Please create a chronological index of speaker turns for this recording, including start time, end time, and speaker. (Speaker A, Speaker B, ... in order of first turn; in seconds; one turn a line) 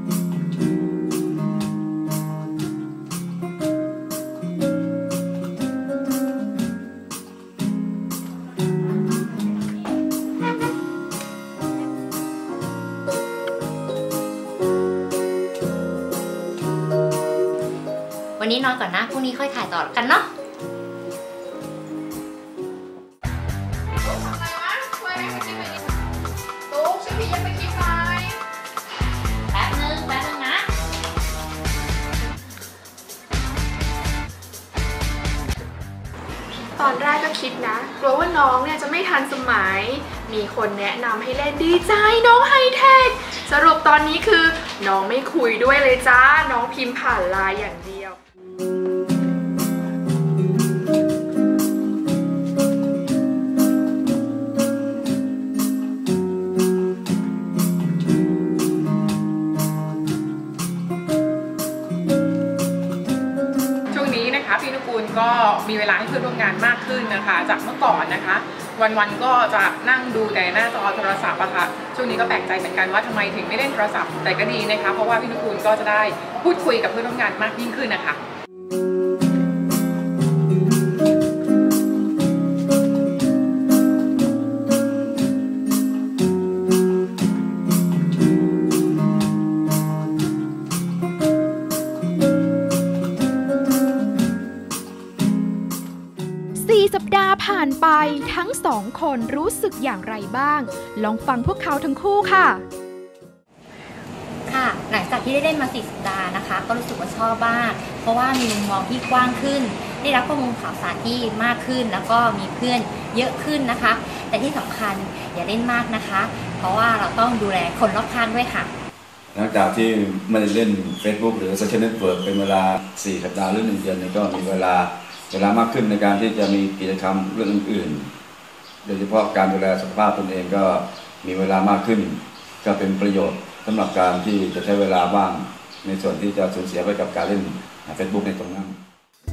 Speaker A: 18.4-20.3
Speaker B: 24.1-25.4
Speaker B: 26.7-28.3
Speaker B: 36.8-48.2
Speaker C: 63.9-78.2
Speaker B: 96.6-102.7
Speaker A: 104.5-118.7
Speaker D: 119.3-128.1
Speaker D: 128.8-138.8